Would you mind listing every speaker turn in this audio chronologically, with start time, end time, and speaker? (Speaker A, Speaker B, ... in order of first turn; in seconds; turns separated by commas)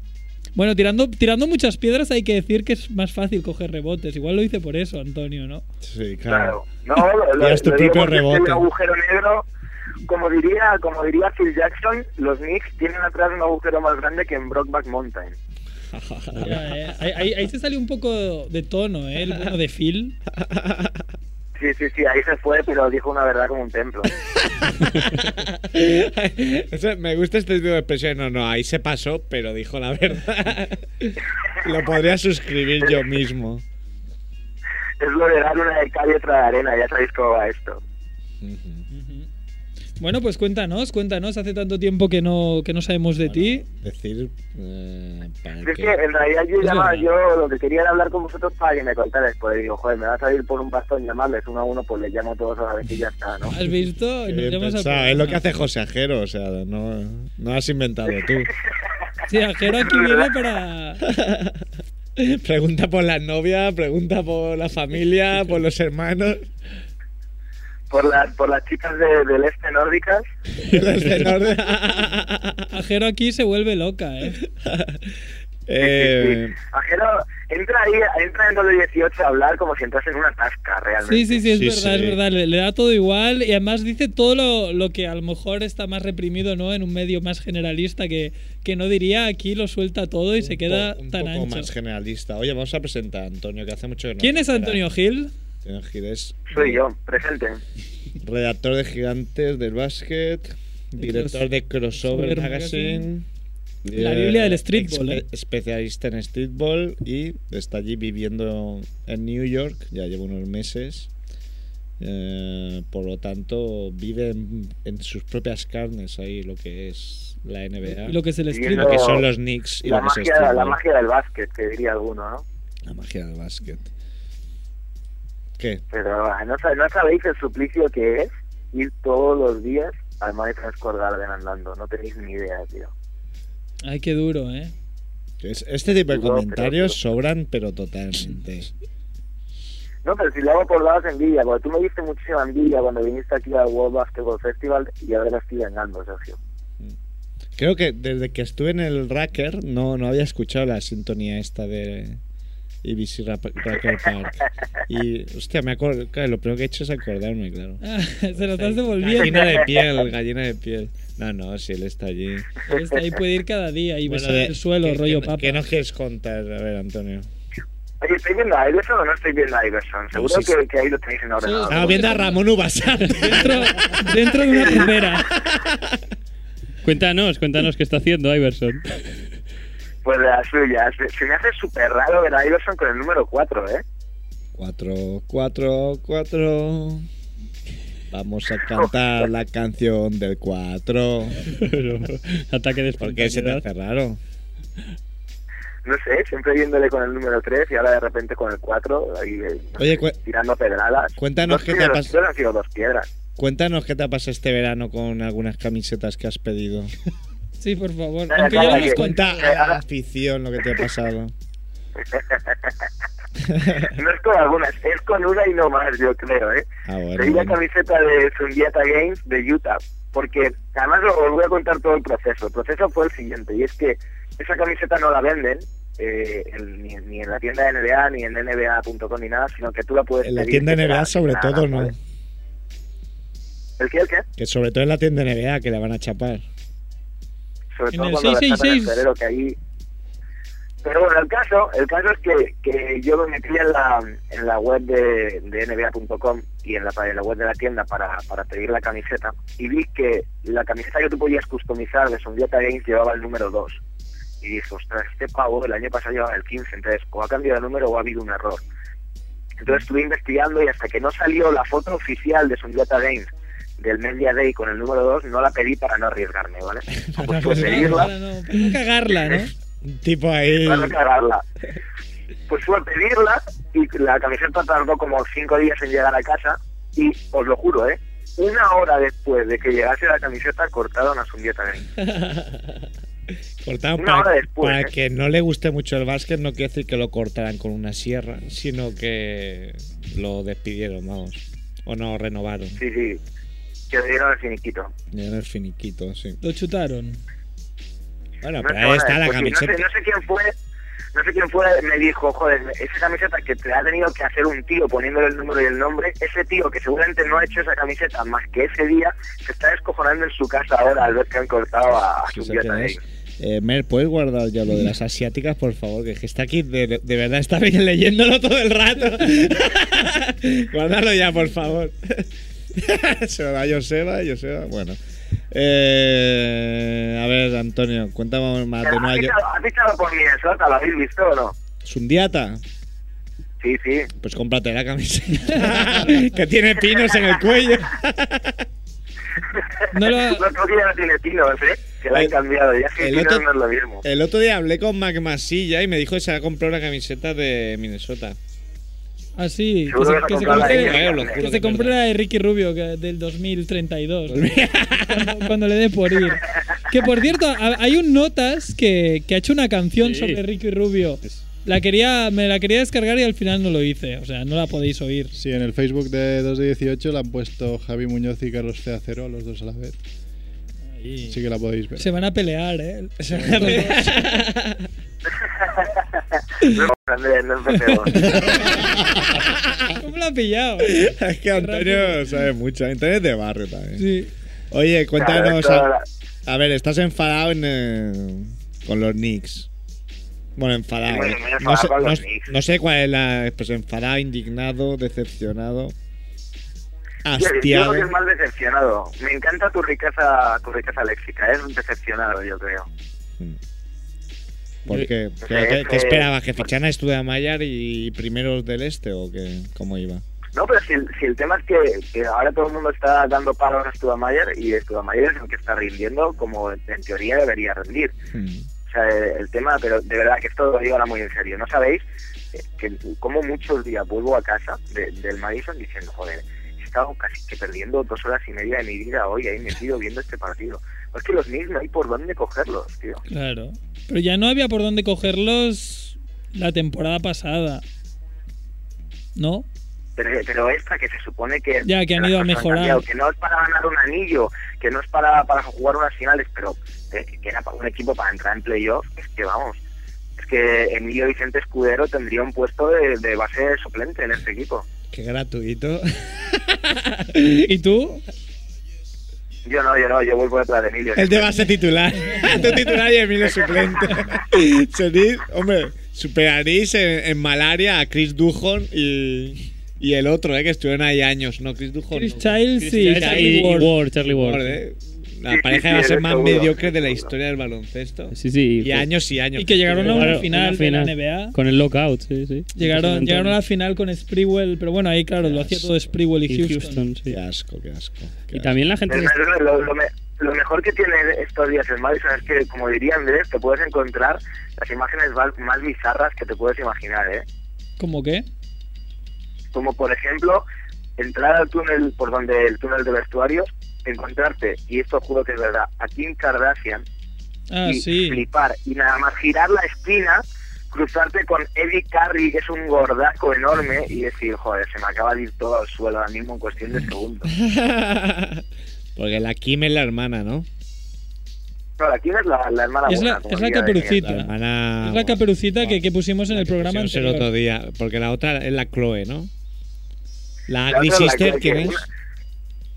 Speaker A: 0.6-5.6, Speaker B: 5.8-6.6, Speaker C: 6.3-9.4, Speaker B: 7.3-8.7, Speaker C: 10.1-15.3, Speaker B: 15.9-16.8, Speaker A: 16.4-20.2, Speaker B: 20.3-21.0, Speaker C: 21.6-24.1, Speaker B: 24.6-33.6, Speaker C: 35.0-37.8, Speaker B: 38.4-38.9, Speaker A: 38.9-39.3, Speaker A: 40.0-43.6, Speaker B: 43.2-46.0, Speaker C: 45.6-53.5, Speaker A: 46.6-47.1, Speaker A: 53.5-55.4, Speaker B: 54.2-58.5, Speaker A: 59.3-61.0, Speaker C: 59.8-60.3, Speaker B: 61.0-61.6, Speaker B: 62.2-66.5, Speaker C: 67.9-70.3, Speaker B: 70.6-72.7, Speaker A: 72.7-74.4, Speaker B: 74.4-75.1, Speaker B: 75.7-76.6, Speaker C: 75.8-81.4, Speaker A: 81.0-91.7, Speaker B: 81.5-82.2, Speaker B: 90.4-94.8, Speaker A: 94.2-95.3, Speaker B: 95.6-96.8, Speaker C: 96.5-97.6, Speaker B: 98.2-103.3, Speaker A: 101.0-101.4, Speaker A: 102.0-103.1, Speaker B: 103.8-111.1, Speaker A: 104.0-105.2, Speaker B: 112.0-120.8, Speaker A: 118.0-119.1, Speaker C: 118.5-119.2, Speaker C: 119.8-122.4, Speaker B: 122.8-123.9, Speaker B: 125.6-125.8, Speaker C: 125.9-132.9, Speaker A: 133.8-134.7, Speaker B: 135.4-138.7, Speaker C: 136.1-136.9, Speaker C: 140.0-146.4, Speaker B: 147.6-152.2, Speaker B: 152.8-162.5, Speaker A: 157.8-159.7, Speaker C: 159.1-160.0, Speaker A: 162.7-165.6, Speaker B: 164.1-167.3, Speaker C: 168.0-172.2, Speaker B: 170.1-170.6, Speaker A: 171.4-172.3, Speaker B: 171.7-173.7, Speaker A: 173.1-175.3, Speaker B: 174.7-176.0, Speaker D: 176.8-178.8, Speaker C: 180.1-183.8, Speaker B: 184.6-187.1, Speaker B: 188.1-191.4, Speaker D: 191.5-193.6, Speaker B: 193.0-194.2, Speaker C: 195.8-203.1, Speaker B: 199.8-200.2, Speaker B: 201.2-202.1, Speaker B: 203.4-206.9, Speaker A: 207.6-209.2, Speaker C: 208.3-209.8, Speaker B: 208.5-211.3, Speaker C: 212.1-212.7, Speaker B: 213.4-213.9, Speaker C: 213.9-231.9, Speaker B: 216.8-217.6, Speaker B: 230.2-232.0, Speaker C: 233.8-234.2, Speaker B: 234.4-236.4, Speaker C: 237.7-239.6, Speaker A: 237.9-239.0, Speaker C: 240.8-253.8, Speaker C: 254.4-258.6, Speaker C: 259.6-268.1, Speaker B: 267.1-268.8, Speaker A: 267.2-269.5, Speaker B: 269.8-270.9, Speaker C: 270.6-271.4, Speaker C: 272.5-281.9, Speaker B: 282.0-282.9, Speaker B: 283.6-292.8, Speaker C: 284.0-284.9, Speaker C: 292.8-293.2, Speaker C: 293.9-294.9, Speaker B: 295.1-296.4, Speaker A: 296.4-297.2, Speaker B: 298.4-299.8, Speaker C: 298.6-300.5, Speaker C: 301.1-313.0, Speaker B: 312.3-325.0, Speaker B: 325.5-329.4, Speaker C: 328.8-331.6, Speaker B: 331.8-332.6, Speaker C: 333.6-334.1, Speaker B: 334.2-338.6, Speaker A: 335.4-335.7, Speaker C: 336.9-337.3, Speaker C: 339.6-344.0, Speaker A: 339.9-340.4, Speaker B: 342.1-342.4, Speaker B: 343.0-343.5, Speaker B: 344.0-348.4, Speaker A: 349.4-365.3, Speaker C: 349.9-351.4, Speaker B: 350.3-352.0, Speaker B: 354.3-355.5, Speaker D: 360.0-360.4, Speaker E: 365.3-369.9, Speaker A: 371.0-371.4, Speaker E: 371.3-372.2, Speaker A: 372.0-374.3, Speaker B: 373.3-374.9, Speaker C: 375.6-378.4, Speaker B: 378.2-379.9, Speaker A: 379.9-382.2, Speaker B: 380.8-384.0, Speaker A: 383.9-384.3, Speaker B: 384.7-385.9, Speaker C: 385.2-386.0, Speaker B: 386.4-389.7, Speaker B: 390.6-395.9, Speaker C: 391.1-392.5, Speaker B: 397.2-398.1, Speaker C: 397.4-402.9, Speaker B: 404.9-410.2, Speaker C: 405.4-406.3, Speaker C: 410.6-418.1, Speaker B: 418.3-418.7, Speaker C: 418.9-422.0, Speaker C: 422.6-433.2, Speaker A: 433.3-437.8, Speaker A: 439.4-439.7, Speaker C: 440.2-449.8, Speaker A: 441.8-443.0, Speaker C: 450.4-454.9, Speaker B: 455.1-457.7, Speaker A: 457.5-458.2, Speaker C: 459.7-461.6, Speaker B: 461.1-480.5, Speaker A: 462.4-462.8, Speaker C: 463.5-464.0, Speaker A: 472.1-473.9, Speaker D: 472.8-474.8, Speaker C: 475.5-477.3, Speaker D: 478.3-479.1, Speaker A: 479.6-481.6, Speaker D: 480.0-483.6, Speaker A: 482.8-487.0, Speaker B: 485.4-486.0, Speaker D: 486.5-487.4, Speaker B: 487.3-488.7, Speaker D: 488.5-489.3, Speaker C: 489.1-497.4, Speaker A: 498.0-498.4, Speaker C: 499.7-500.7, Speaker C: 501.2-507.1, Speaker A: 507.7-508.4, Speaker C: 507.8-517.5, Speaker B: 517.5-518.6, Speaker B: 519.1-520.7, Speaker C: 522.0-524.3, Speaker A: 523.1-527.5, Speaker B: 524.2-529.5, Speaker B: 530.7-532.0, Speaker C: 530.9-532.0